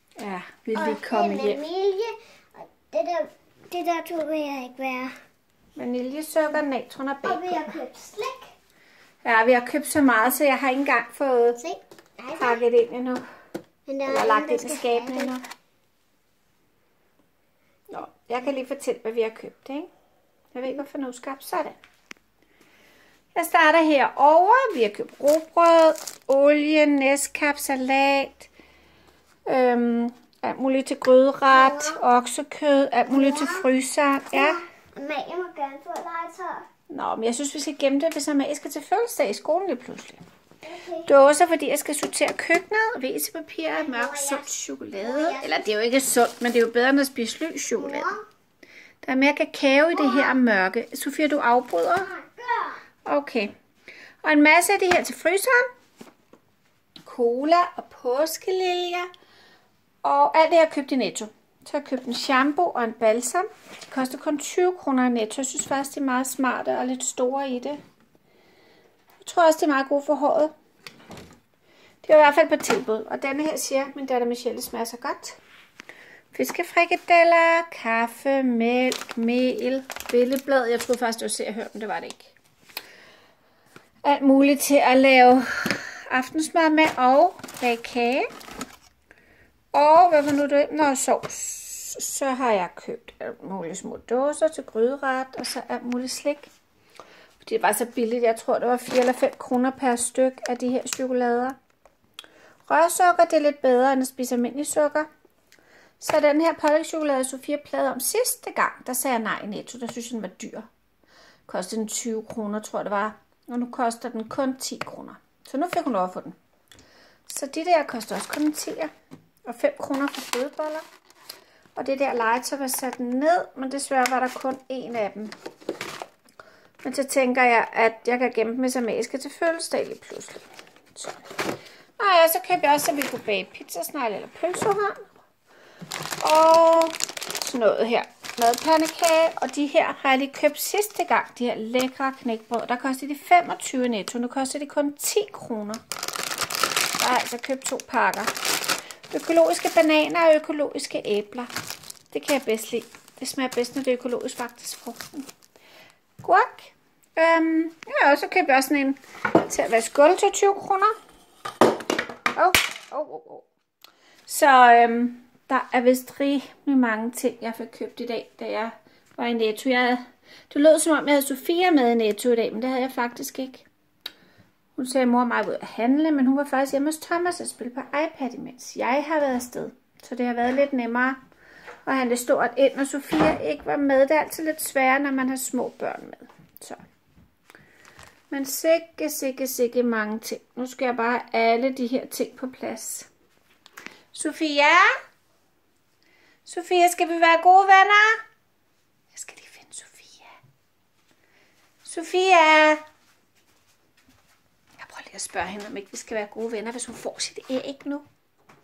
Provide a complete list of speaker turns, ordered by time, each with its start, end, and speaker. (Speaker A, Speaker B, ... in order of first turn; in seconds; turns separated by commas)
Speaker A: 0.2-1.6, Speaker B: 0.7-5.1, Speaker A: 5.8-7.8, Speaker B: 7.2-8.5, Speaker A: 9.2-11.6, Speaker B: 11.6-12.7, Speaker A: 12.4-13.2, Speaker B: 13.9-15.4, Speaker A: 14.1-15.4, Speaker A: 17.9-19.9, Speaker A: 20.5-21.8, Speaker A: 23.4-28.5, Speaker A: 29.5-34.6, Speaker B: 31.5-32.0, Speaker B: 33.1-33.7, Speaker B: 34.3-36.7, Speaker A: 36.9-40.2, Speaker B: 40.6-41.1, Speaker A: 41.1-48.1, Speaker B: 43.7-45.6, Speaker B: 47.8-48.2, Speaker A: 49.0-52.1, Speaker B: 49.9-50.4, Speaker B: 52.0-52.8, Speaker A: 53.0-53.5, Speaker A: 54.2-55.7, Speaker A: 57.0-59.1, Speaker A: 60.0-67.8, Speaker A: 69.2-70.5, Speaker A: 72.0-75.4, Speaker A: 76.3-82.3, Speaker A: 84.0-88.3, Speaker A: 89.7-96.5, Speaker A: 97.4-101.6, Speaker A: 102.7-105.1, Speaker A: 106.0-110.7, Speaker A: 111.5-116.4, Speaker A: 117.3-118.9, Speaker A: 119.5-120.9, Speaker A: 121.8-125.3, Speaker A: 126.8-131.3, Speaker A: 132.0-135.1, Speaker A: 136.2-145.8, Speaker A: 147.0-148.3, Speaker A: 149.1-151.5, Speaker A: 152.1-155.3, Speaker A: 156.2-160.9, Speaker A: 162.3-163.5, Speaker A: 164.3-173.7, Speaker A: 174.8-181.2, Speaker A: 181.9-186.8, Speaker A: 188.3-193.1, Speaker A: 194.1-194.9, Speaker A: 196.4-198.2, Speaker A: 199.1-200.3, Speaker A: 201.8-202.8, Speaker A: 204.8-208.1